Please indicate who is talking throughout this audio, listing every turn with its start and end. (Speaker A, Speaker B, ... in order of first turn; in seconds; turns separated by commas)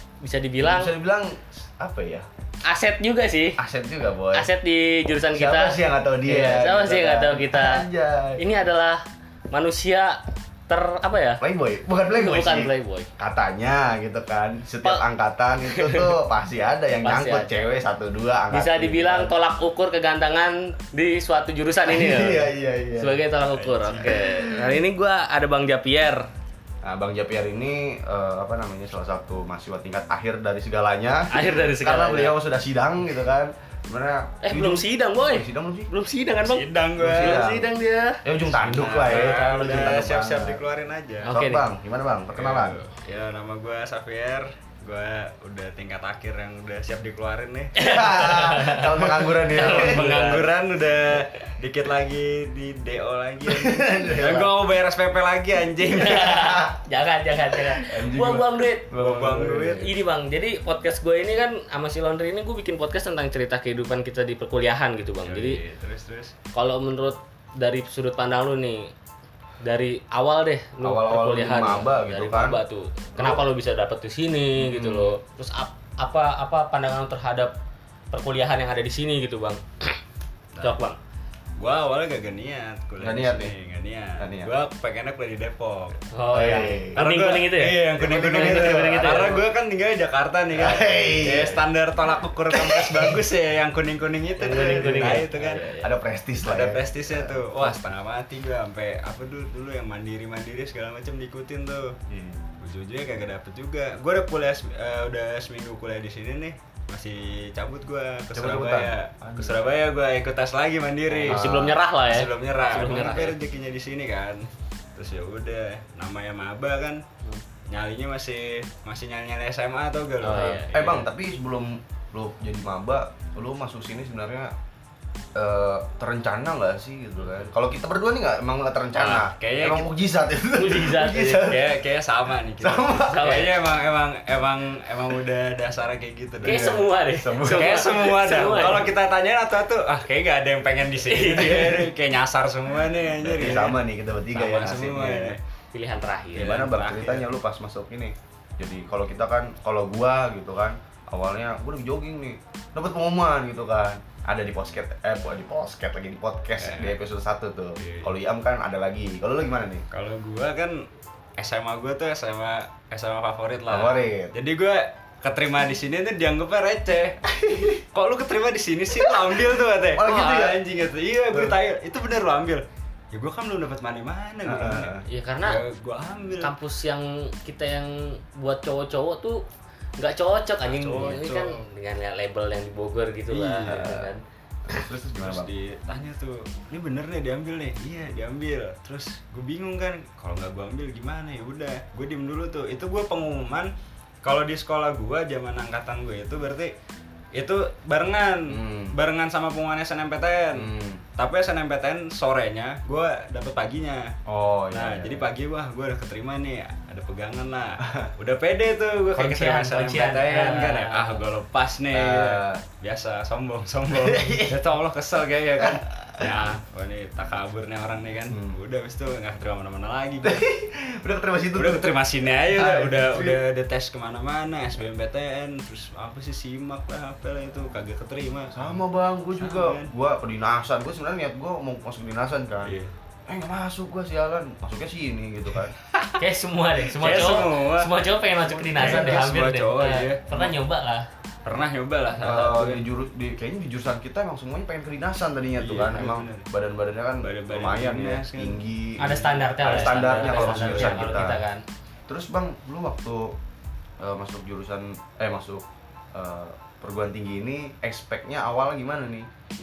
Speaker A: 0.2-0.9, Speaker B: 0.6-2.3, Speaker A: 2.6-3.6, Speaker B: 3.6-4.5, Speaker A: 4.3-7.8, Speaker B: 5.3-8.5, Speaker A: 8.4-11.4, Speaker B: 11.4-19.3, Speaker A: 12.1-13.1, Speaker A: 15.7-16.1, Speaker A: 17.0-17.6, Speaker A: 18.5-26.3, Speaker B: 21.9-23.2, Speaker C: 23.6-24.0, Speaker B: 23.9-24.8, Speaker B: 26.8-35.9, Speaker A: 31.3-32.4, Speaker A: 34.4-38.2, Speaker C: 36.4-37.4, Speaker B: 37.0-37.7, Speaker B: 38.2-40.6, Speaker C: 38.4-41.3, Speaker A: 41.2-41.7, Speaker B: 41.3-42.8, Speaker C: 42.4-47.8, Speaker A: 47.8-50.5, Speaker B: 47.8-50.2, Speaker C: 49.5-56.5, Speaker B: 53.4-54.5, Speaker A: 55.9-58.9, Speaker B: 56.3-56.7, Speaker B: 57.5-59.9, Speaker C: 58.9-59.9, Speaker A: 59.8-65.6, Speaker C: 65.2-66.3, Speaker A: 66.5-68.9, Speaker A: 69.6-77.5, Speaker B: 70.8-72.6, Speaker B: 73.2-73.5, Speaker B: 74.6-75.2, Speaker A: 78.1-80.0, Speaker C: 80.5-80.8, Speaker A: 80.6-81.0, Speaker C: 81.6-86.0, Speaker B: 83.0-83.5, Speaker B: 84.2-84.5, Speaker A: 86.1-89.4, Speaker B: 86.3-87.0, Speaker C: 87.0-95.7, Speaker B: 88.0-89.3, Speaker B: 90.5-91.6, Speaker B: 92.5-93.2, Speaker A: 94.4-95.9, Speaker B: 94.5-95.2, Speaker B: 95.8-97.4, Speaker C: 96.4-102.0, Speaker B: 102.1-102.5, Speaker C: 102.6-111.5, Speaker B: 108.3-109.7, Speaker A: 111.1-113.4, Speaker B: 111.2-111.8, Speaker C: 112.0-117.0, Speaker C: 117.7-121.0, Speaker A: 120.2-120.7, Speaker B: 120.7-124.5, Speaker B: 125.3-131.8, Speaker C: 128.9-129.9, Speaker A: 130.6-131.5, Speaker C: 131.4-136.7, Speaker B: 132.6-133.5, Speaker A: 133.0-133.6, Speaker B: 136.4-137.8, Speaker A: 136.4-138.9, Speaker C: 137.4-143.8, Speaker A: 141.1-141.9, Speaker B: 143.2-145.4, Speaker C: 144.3-145.4, Speaker A: 145.7-146.6, Speaker C: 146.3-147.2, Speaker B: 146.4-159.9, Speaker C: 156.6-157.0, Speaker C: 157.8-158.1, Speaker C: 159.9-167.2, Speaker B: 163.7-164.3, Speaker B: 167.3-167.8, Speaker C: 167.9-176.5, Speaker B: 168.9-169.4, Speaker B: 169.9-170.6, Speaker B: 174.4-175.1, Speaker A: 175.1-175.6, Speaker A: 176.4-179.4, Speaker A: 180.0-184.8, Speaker C: 180.6-181.6, Speaker C: 183.3-183.9, Speaker B: 183.6-184.1, Speaker B: 184.7-185.5, Speaker C: 185.2-193.7, Speaker C: 194.2-196.7, Speaker C: 197.3-204.1, Speaker B: 198.5-199.0, Speaker B: 200.5-201.0, Speaker B: 204.3-205.3, Speaker C: 204.7-220.4, Speaker B: 207.8-208.1, Speaker A: 209.1-211.2, Speaker B: 211.9-212.6, Speaker B: 213.9-214.7, Speaker B: 215.6-216.3, Speaker B: 218.3-218.6, Speaker B: 220.2-221.9, Speaker C: 221.5-228.8, Speaker B: 222.5-223.4, Speaker B: 228.5-232.8, Speaker C: 229.4-229.9, Speaker C: 232.7-232.9, Speaker B: 233.3-235.7, Speaker A: 236.2-241.1, Speaker C: 236.9-240.5, Speaker B: 238.8-239.2, Speaker C: 241.4-242.8, Speaker B: 242.2-251.4, Speaker C: 245.6-246.5, Speaker C: 247.2-251.3, Speaker A: 249.0-251.7, Speaker B: 252.1-253.4, Speaker B: 254.0-259.3